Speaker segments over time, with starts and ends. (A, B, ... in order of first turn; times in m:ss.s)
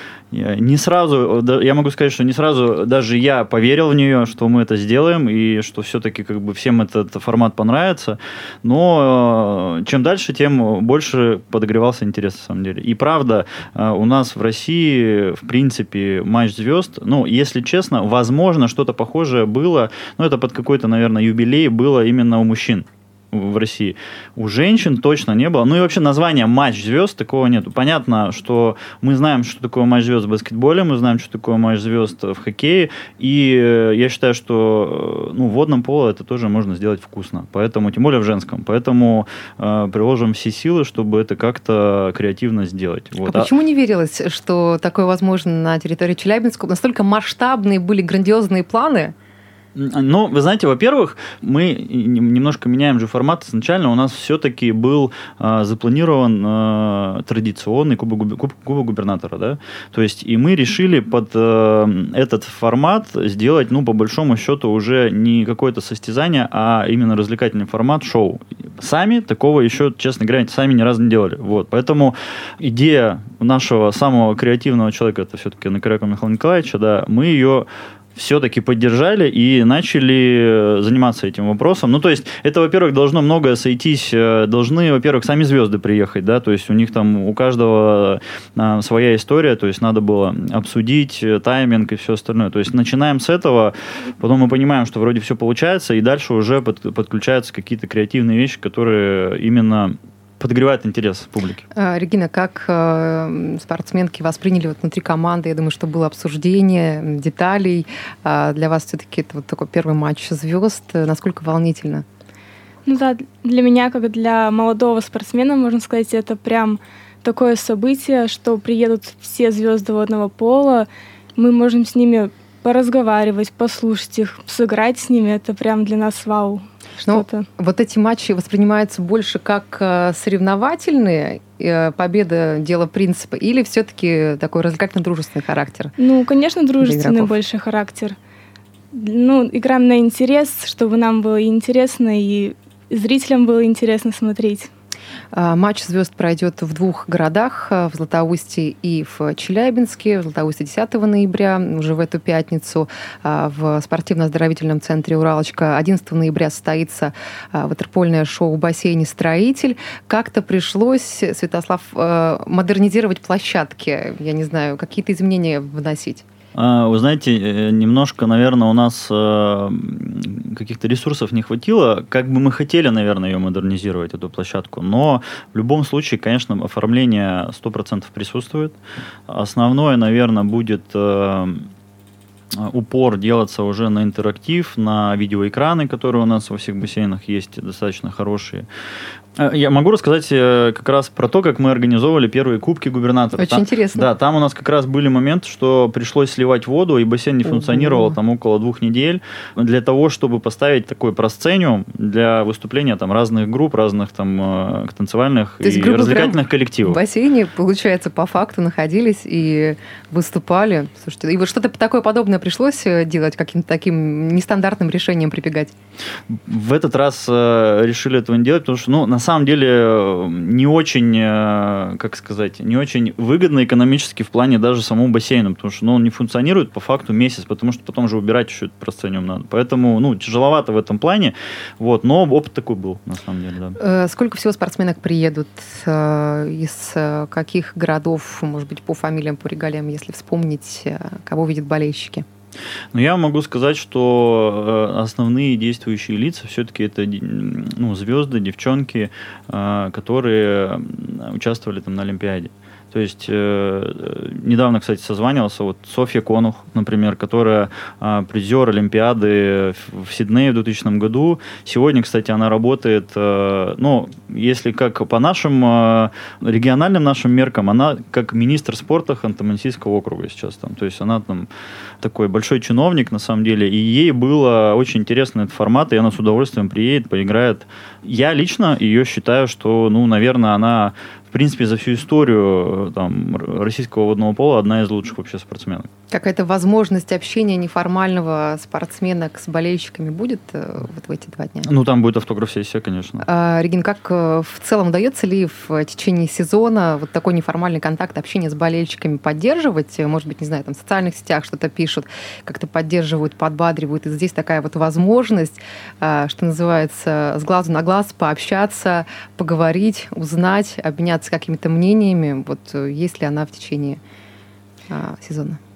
0:00.3-0:43.5 A
0:43.2-0:49.1 B
0:49.8-1:41.7 A
1:41.7-1:52.0 B
1:52.9-2:07.5 C
2:07.0-2:15.9 B
2:16.0-2:18.2 C
2:16.8-2:17.3 B
2:18.9-2:24.7 C
2:25.3-2:46.2 B
2:46.5-2:58.8 A
2:59.3-3:01.7 A
3:02.5-3:08.7 A
3:09.4-3:27.0 A
3:13.4-3:14.1 B
3:17.5-3:18.2 B
3:25.6-3:35.7 B
3:36.3-3:53.8 A
3:53.8-4:02.2 B
4:02.9-4:31.5 A
4:32.0-4:45.9 A
4:46.1-4:51.7 B
4:51.6-4:53.2 A
4:53.2-5:14.0 B
5:14.9-5:15.6 B